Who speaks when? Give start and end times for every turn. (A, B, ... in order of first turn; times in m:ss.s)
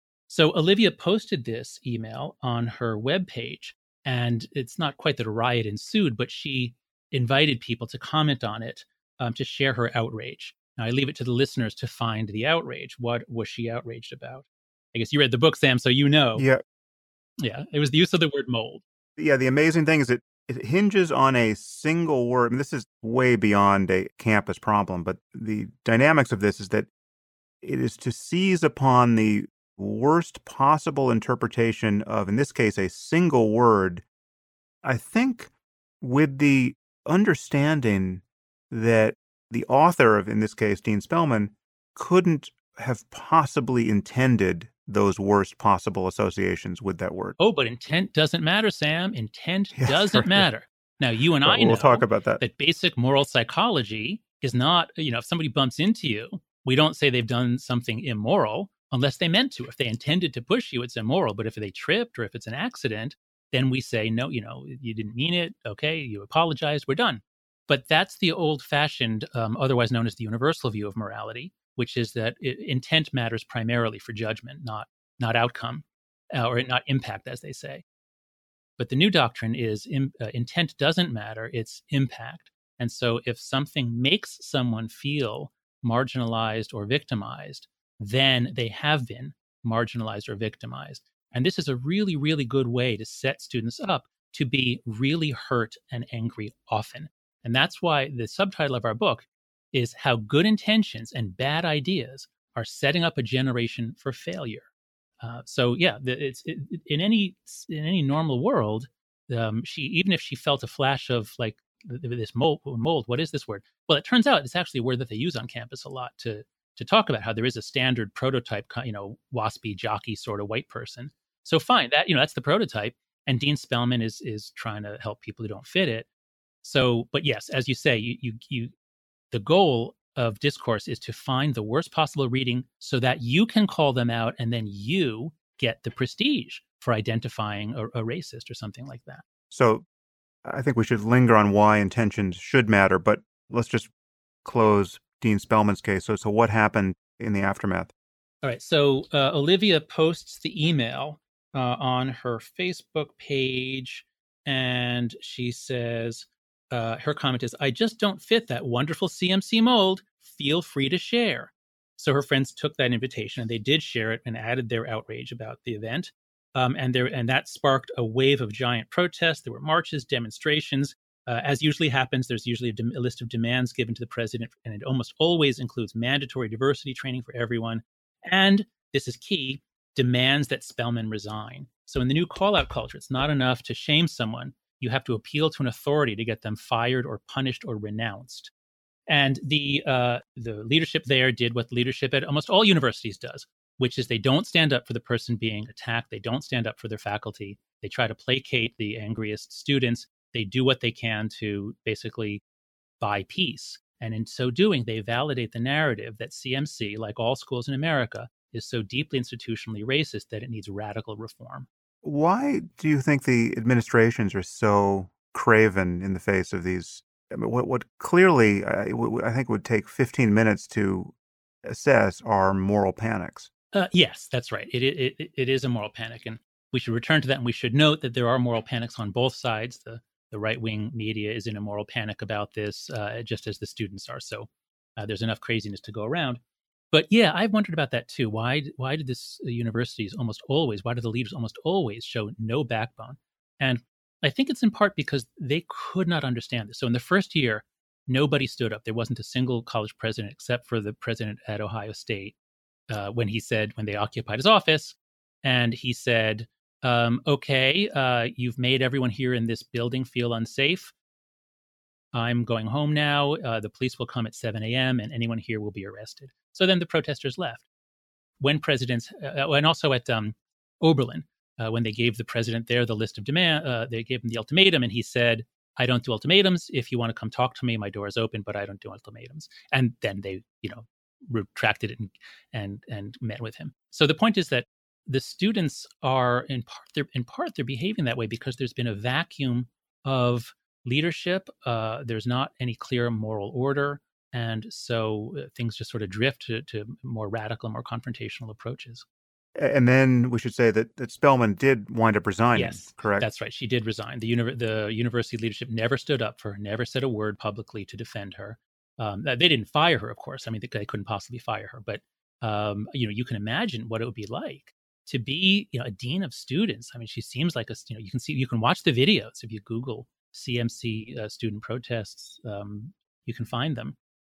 0:00.3-0:16.5 A
0:16.4-0:16.6 B
0:17.4-0:18.8 A
0:19.2-0:26.9 B
0:27.6-0:34.0 B
0:34.8-0:35.5 B
0:36.0-0:47.4 B
0:47.4-1:17.8 A
0:49.7-0:50.5 B
0:51.4-0:52.4 B
1:18.8-1:44.7 A
1:45.2-2:06.1 A
2:06.6-2:08.7 A
2:09.3-2:19.2 A
2:19.5-2:19.8 B
2:20.4-2:23.9 B
2:24.4-2:27.9 B
2:28.4-3:08.5 A
3:09.1-3:22.4 A
3:23.0-3:31.7 A
3:32.0-3:43.5 B
3:43.7-3:56.4 A
3:56.9-4:12.4 A
4:12.9-4:20.9 A
4:22.1-4:27.6 A
4:28.4-4:59.0 A
4:59.6-5:03.3 B
5:02.5-5:24.0 A